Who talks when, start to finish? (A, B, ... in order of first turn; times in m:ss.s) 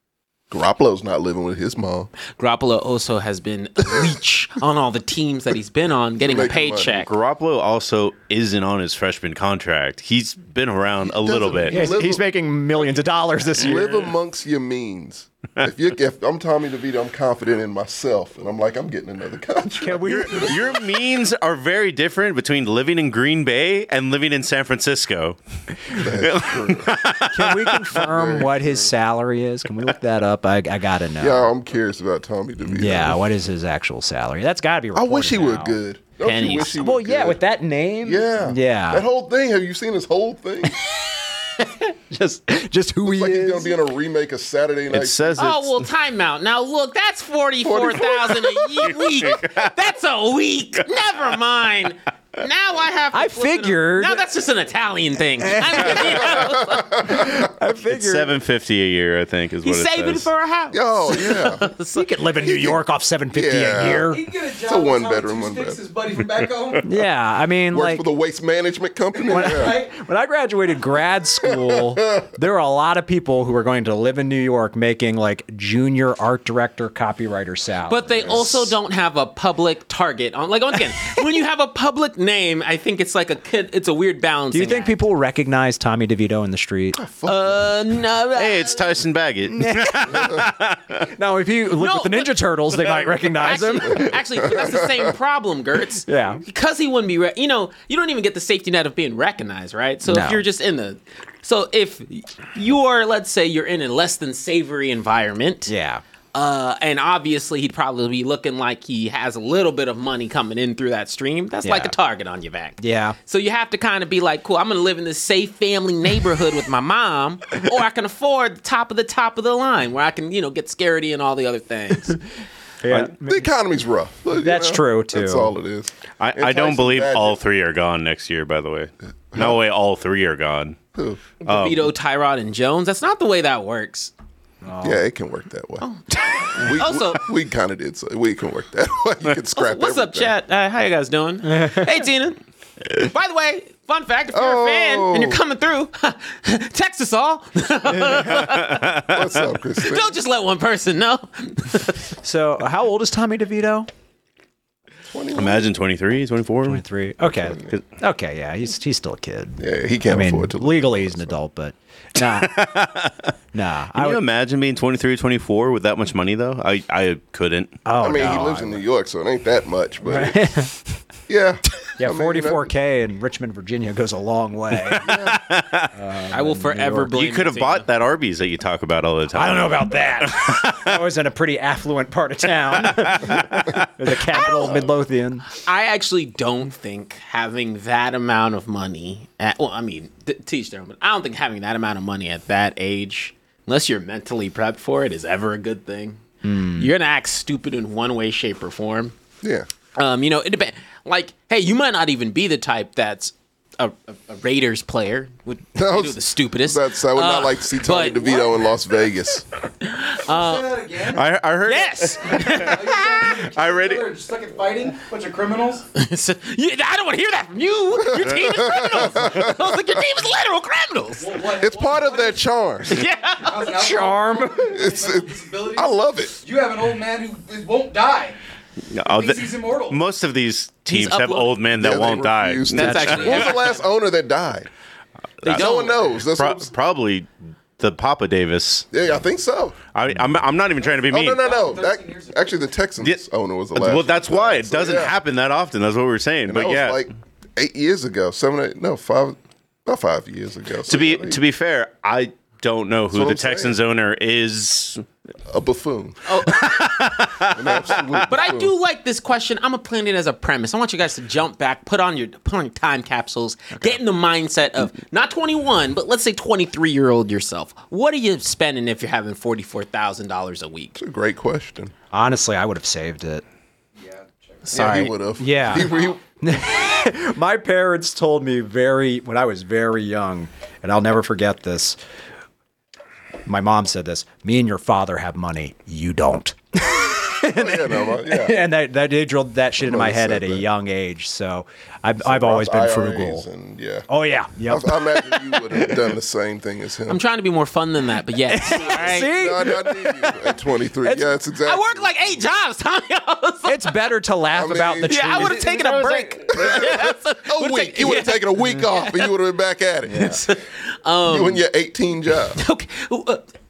0:00.5-0:02.1 A
0:02.3-0:07.1 B
0:03.8-0:04.1 A
0:06.2-0:06.9 A
0:06.9-0:11.8 C
0:11.0-0:12.2 A
0:11.7-0:14.1 D
0:13.6-0:20.8 A
0:19.8-0:20.6 D
0:20.3-0:28.0 C
0:25.9-0:27.0 A
0:27.3-0:31.5 D
0:27.9-0:28.9 A
0:31.2-0:33.2 A
0:32.6-0:35.8 D
0:34.9-0:37.4 A
0:36.2-0:36.8 B
0:36.7-0:39.0 D
0:38.0-0:40.7 A
0:40.6-0:43.8 D
0:43.1-0:45.5 A
0:44.9-0:45.8 C
0:45.4-0:57.3 B
0:47.6-0:48.5 A
0:49.1-0:49.7 C
0:53.1-0:54.2 D
0:55.4-0:56.4 D
0:56.0-0:57.5 A
0:57.0-0:58.4 D
0:57.9-1:00.3 C
0:59.6-1:02.1 B
1:00.7-1:01.7 A
1:01.9-1:04.2 D
1:02.4-1:02.8 A
1:03.3-1:04.1 A
1:04.0-1:06.9 E
1:04.6-1:05.8 A
1:06.8-1:08.0 D
1:07.7-1:09.8 A
1:09.3-1:18.7 D
1:09.4-1:09.9 E
1:11.5-1:12.2 A
1:17.9-1:25.0 B
1:24.5-1:27.0 D
1:26.9-1:27.6 A
1:27.3-1:29.1 B
1:28.4-1:31.1 C
1:29.6-1:30.4 D
1:30.1-1:30.4 A
1:31.1-1:34.2 D
1:31.8-1:32.3 B
1:33.4-1:45.7 B
1:34.4-1:35.1 A
1:36.1-1:36.4 D
1:40.1-1:40.4 D
1:45.7-1:46.0 D
1:46.3-2:02.2 B
1:51.6-1:51.9 D
1:52.8-1:53.2 D
2:02.8-2:03.5 D
2:03.2-2:07.4 A
2:04.4-2:05.5 D
2:06.2-2:10.8 C
2:09.3-2:09.6 A
2:10.9-2:11.2 A
2:11.4-2:14.1 B
2:11.4-2:11.9 C
2:14.6-2:15.0 D
2:14.8-2:15.9 A
2:15.8-2:17.3 B
2:16.5-2:20.3 A
2:19.6-2:29.0 B
2:21.6-2:21.9 D
2:24.3-2:25.4 A
2:28.0-2:29.2 C
2:29.0-2:30.2 A
2:29.8-2:32.1 B
2:32.2-2:33.9 D
2:35.1-2:35.7 A
2:35.4-2:36.8 C
2:36.7-2:42.6 D
2:39.6-2:41.4 A
2:42.2-2:43.3 C
2:43.5-2:44.2 D
2:44.0-2:47.8 C
2:47.8-2:48.8 D
2:48.0-2:50.5 A
2:50.0-2:50.8 D
2:51.3-2:52.7 A
2:52.0-2:55.2 D
2:54.9-2:55.9 C
2:55.0-2:55.4 A
2:55.9-2:57.1 D
2:56.3-2:57.9 B
2:57.1-3:01.0 C
2:59.3-3:05.5 D
3:02.8-3:03.8 C
3:04.4-3:04.8 B
3:05.5-3:19.1 B
3:16.4-3:16.9 D
3:19.4-3:19.7 A
3:20.0-3:28.6 B
3:25.8-3:29.4 A
3:29.8-3:31.0 B
3:30.2-3:31.3 E
3:31.1-3:34.1 C
3:31.6-3:33.5 B
3:32.3-3:35.8 E
3:35.9-3:41.5 B
3:38.0-3:39.8 A
3:41.2-3:48.4 E
3:41.6-3:43.0 A
3:42.9-3:43.7 B
3:43.7-3:44.9 D
3:44.7-3:46.4 A
3:48.9-3:53.6 C
3:49.0-3:50.0 E
3:50.9-3:51.5 B
3:51.7-3:54.7 A
3:52.7-3:53.8 B
3:52.7-3:53.5 D
3:55.4-3:56.0 B
3:55.4-3:58.9 C
3:55.4-3:56.7 A
3:58.9-3:59.8 A
3:59.9-4:01.5 C
4:01.1-4:05.1 A
4:01.4-4:02.5 E
4:03.8-4:07.0 C
4:06.5-4:11.4 A
4:10.9-4:15.0 C
4:13.1-4:13.8 A
4:15.5-4:16.4 A
4:16.3-4:17.2 B
4:16.4-4:18.3 C
4:17.5-4:18.7 A
4:18.3-4:31.0 B
4:31.0-4:31.9 A
4:32.1-4:33.4 D
4:34.0-4:34.7 E
4:34.7-4:35.2 B
4:34.7-4:36.2 A
4:35.4-4:42.0 D
4:35.9-4:36.1 E
4:43.4-4:53.4 D
4:47.4-4:48.6 A
4:49.8-4:50.7 A
4:52.2-4:54.1 A
4:54.1-4:55.9 D
4:54.7-4:57.2 A
4:57.1-4:59.3 B
4:58.5-5:01.3 D
4:59.1-5:02.1 A
5:01.6-5:03.9 B
5:03.7-5:06.6 D
5:04.6-5:05.6 A
5:05.0-5:09.3 B
5:06.5-5:10.4 A
5:10.1-5:11.6 B
5:11.2-5:12.6 A
5:12.6-5:13.4 B